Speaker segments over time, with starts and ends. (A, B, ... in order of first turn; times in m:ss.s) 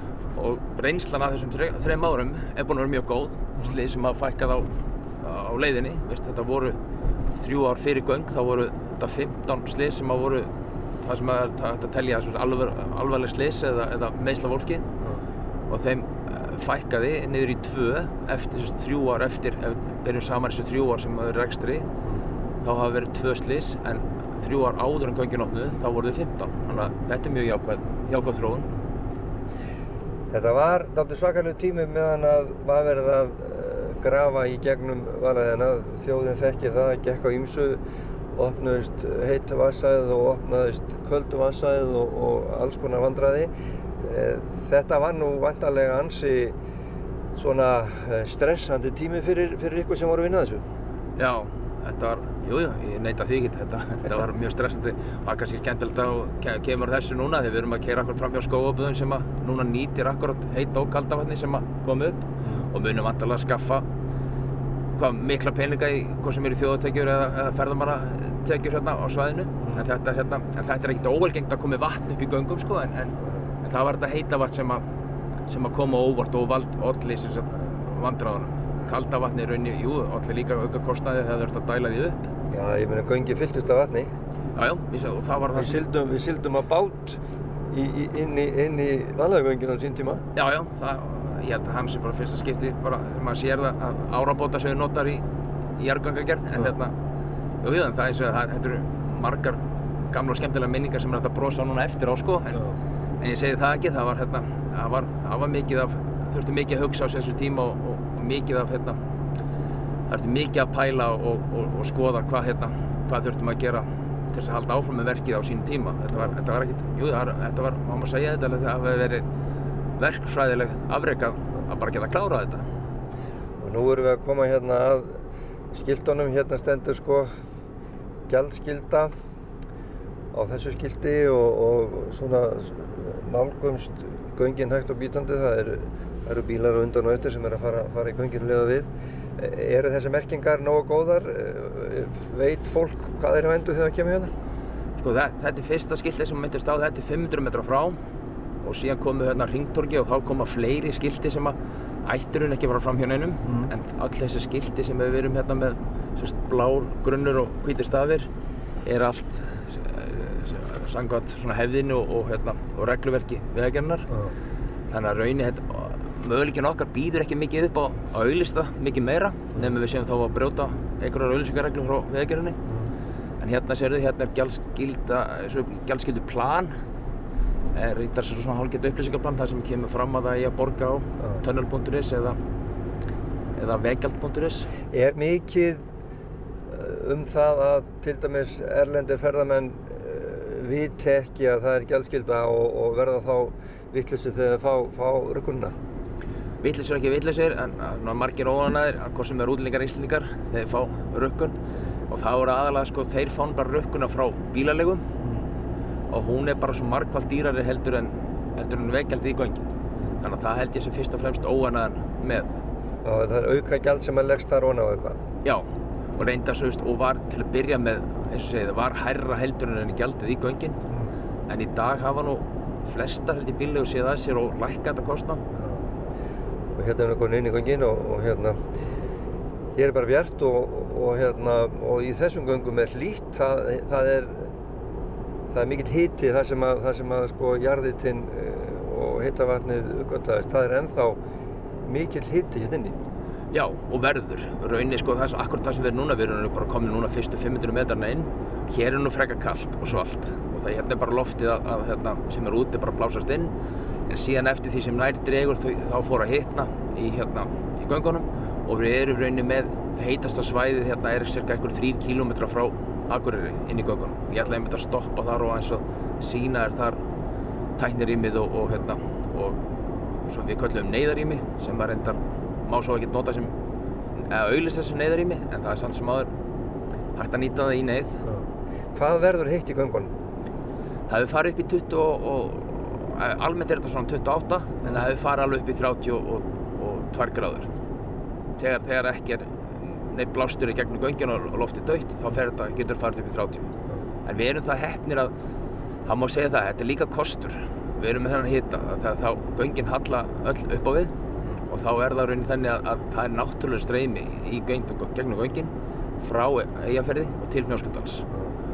0:00.4-0:06.8 A
0:07.3-0:14.9 A
0:15.7-0:21.9 A
0:22.6-0:28.7 A
0:30.3-0:37.8 B
0:38.3-0:46.6 B
0:47.4-0:50.6 B
0:51.2-1:03.9 A
1:05.0-1:14.9 A
1:15.5-1:22.3 A
1:22.5-1:24.1 B
1:24.5-1:25.8 A
1:25.5-1:30.2 B
1:30.4-1:35.3 A
1:35.8-1:37.0 A
1:37.6-1:42.7 A
1:43.2-1:49.0 A
1:50.1-1:59.3 A
2:00.0-2:02.7 A
2:03.6-2:07.3 B
2:08.3-2:09.1 B
2:10.3-2:24.3 B
2:25.0-2:28.0 A
2:28.6-2:38.3 A
2:33.4-2:33.7 B
2:38.8-2:44.1 A
2:44.1-2:44.4 B
2:44.9-2:52.6 A
2:53.4-2:56.7 A
2:57.7-3:02.4 A
3:03.6-3:04.7 A
3:04.9-3:05.9 B
3:06.7-3:15.8 B
3:16.6-3:21.6 A
3:22.1-3:25.1 A
3:25.2-3:25.5 B
3:26.1-3:29.6 A
3:30.2-3:32.5 A
3:33.0-3:35.2 B
3:35.4-3:40.8 A
3:41.5-3:45.4 A
3:45.5-3:45.9 B
3:46.7-3:48.6 B
3:49.8-3:54.5 B
3:55.5-4:01.2 B
4:01.8-4:03.0 B
4:03.5-4:13.5 A
4:14.1-4:27.0 A
4:27.8-4:29.7 A
4:30.2-4:33.6 A
4:34.2-4:36.3 A
4:37.2-4:38.2 A
4:38.2-4:40.1 B
4:41.1-4:47.7 A
4:48.6-4:53.7 A
4:54.2-4:55.3 A
4:56.0-5:08.3 A